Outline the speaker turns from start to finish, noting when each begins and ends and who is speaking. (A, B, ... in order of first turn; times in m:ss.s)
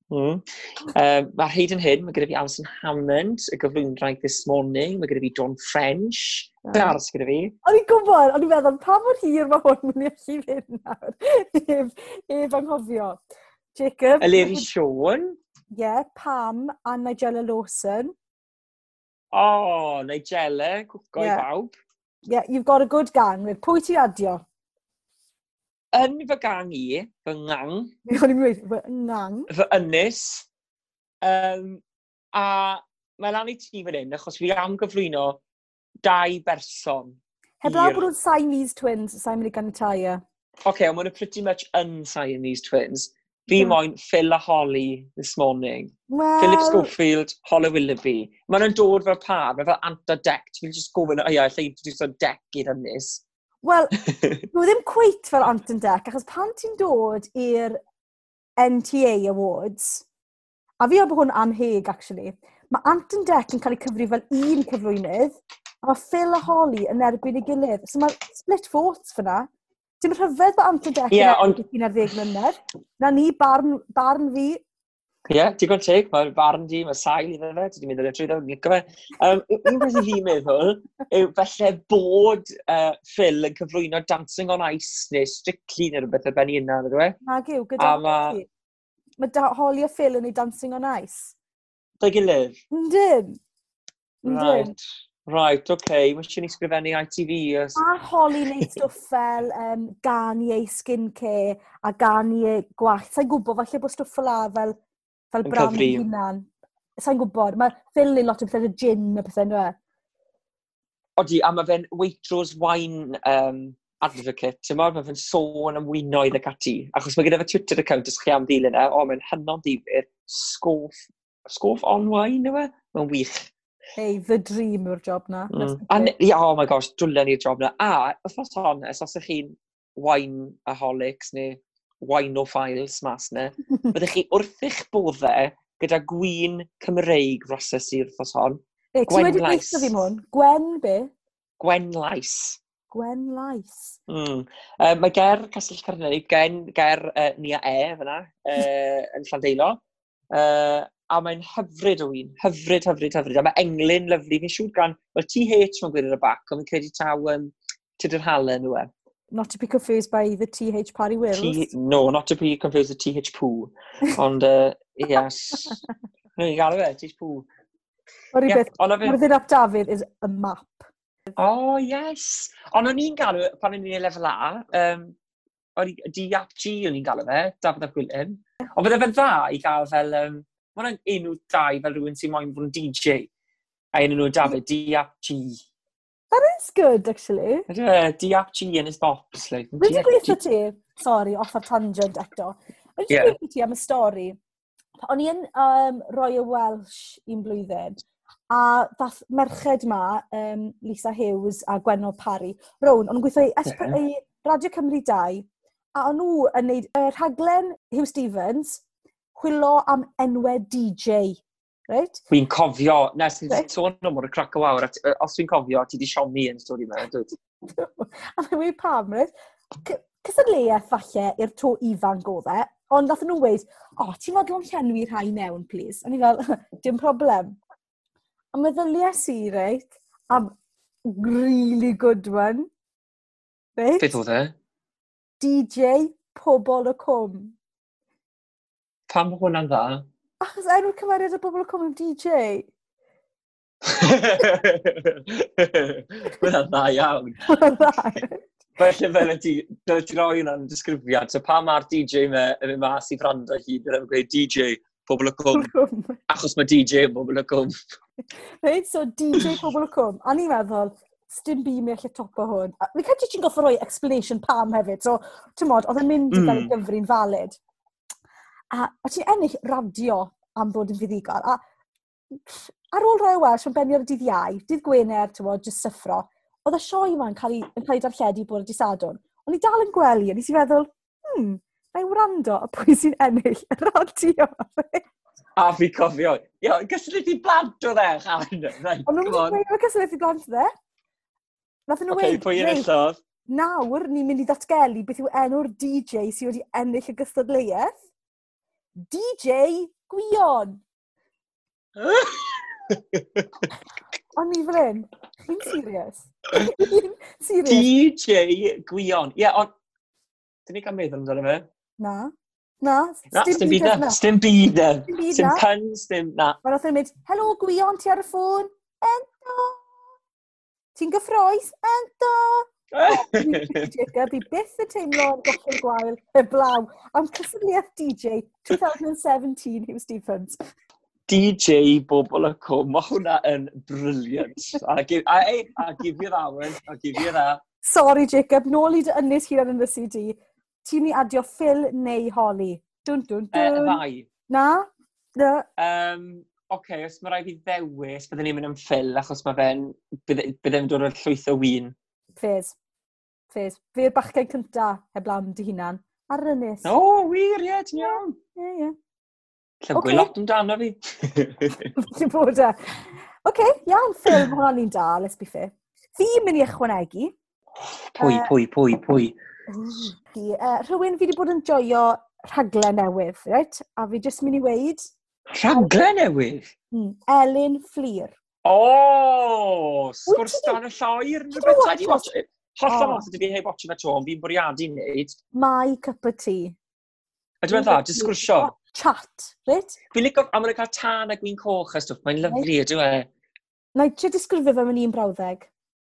0:00.1-0:07.6 A
0:06.6-0:07.0 B
0:07.6-0:13.2 B
0:13.8-0:14.7 B
0:14.2-0:15.4 A
0:15.7-0:18.1 B
0:19.3-0:21.8 A
0:21.2-0:21.4 B
0:22.3-0:24.4 B
0:25.9-0:28.0 A
0:28.1-0:29.5 B
0:29.5-0:30.5 A
0:31.2-0:31.8 A
0:32.3-0:35.4 A
0:36.0-0:38.1 A
0:37.6-0:40.2 B
0:40.7-0:53.2 A
0:46.1-0:46.9 B
0:53.6-0:54.0 B
0:54.1-0:54.5 A
0:54.5-0:57.8 B
0:58.6-1:00.1 B
1:00.8-1:09.5 B
1:10.0-1:14.6 B
1:11.1-1:11.6 A
1:15.3-1:27.2 A
1:27.3-1:28.5 B
1:27.8-1:28.4 A
1:29.2-1:31.4 B
1:32.0-1:32.6 A
1:32.7-1:33.4 B
1:34.2-1:34.7 B
1:34.2-1:37.8 A
1:37.8-1:44.8 B
1:45.3-1:46.5 B
1:45.4-1:46.0 A
1:47.0-1:49.8 B
1:51.2-2:03.5 A
2:04.0-2:06.1 B
2:05.5-2:19.9 A
2:19.0-2:21.1 B
2:21.6-2:22.6 A
2:22.9-2:24.0 B
2:24.1-2:38.9 A
2:39.3-2:41.7 B
2:41.3-2:45.8 A
2:46.4-2:47.5 A
2:48.3-2:50.9 B
2:48.4-2:49.2 A
2:51.4-2:55.2 A
2:55.8-3:03.3 A
3:03.9-3:05.6 A
3:06.3-3:07.7 B
3:07.7-3:10.4 A
3:09.8-3:14.4 B
3:13.1-3:13.4 A
3:15.0-3:28.8 B
3:23.7-3:24.0 A
3:29.4-3:32.2 B
3:32.3-3:37.3 A
3:37.7-3:47.6 B
3:48.5-3:50.5 B
3:51.1-3:52.7 B
3:53.8-3:54.2 B
3:54.0-3:54.6 A
3:55.4-3:57.6 B
3:59.1-4:00.1 A
4:00.4-4:02.7 B
4:03.9-4:07.6 A
4:07.5-4:08.5 B
4:08.8-4:15.7 A
4:15.5-4:16.2 B
4:16.3-4:17.9 A
4:18.6-4:27.6 B
4:19.4-4:19.6 A
4:26.3-4:26.7 A
4:28.7-4:31.6 B
4:32.3-4:45.0 B
4:45.6-4:49.6 A
4:49.1-4:50.7 B
4:51.9-4:52.9 B
4:52.1-4:53.2 A
4:53.5-4:58.0 B
4:59.1-5:00.8 B
5:02.0-5:03.7 A
5:04.4-5:07.9 B
5:07.6-5:09.7 A
5:10.7-5:11.7 A
5:12.0-5:14.2 B
5:13.3-5:16.6 A
5:15.1-5:15.6 B
5:16.6-5:19.9 B
5:21.0-5:30.6 B
5:22.9-5:23.9 A
5:31.3-5:37.6 A
5:37.8-5:45.7 B
5:43.5-5:44.3 A
5:45.8-5:52.0 A
5:52.4-5:52.8 B
5:53.5-5:56.9 B
5:56.8-5:58.4 A
5:58.0-5:59.0 B
5:59.8-6:01.9 A
5:59.9-6:00.3 B
6:02.0-6:07.3 B
6:08.1-6:09.4 A
6:08.2-6:08.5 B
6:09.7-6:15.1 B
6:15.5-6:16.7 A
6:16.9-6:18.3 B
6:18.6-6:25.4 A
6:20.3-6:20.8 B
6:21.5-6:22.3 B
6:22.9-6:23.2 B
6:25.6-6:26.8 B
6:27.6-6:28.7 A
6:27.7-6:30.0 B
6:30.1-6:33.3 A
6:34.0-6:35.7 B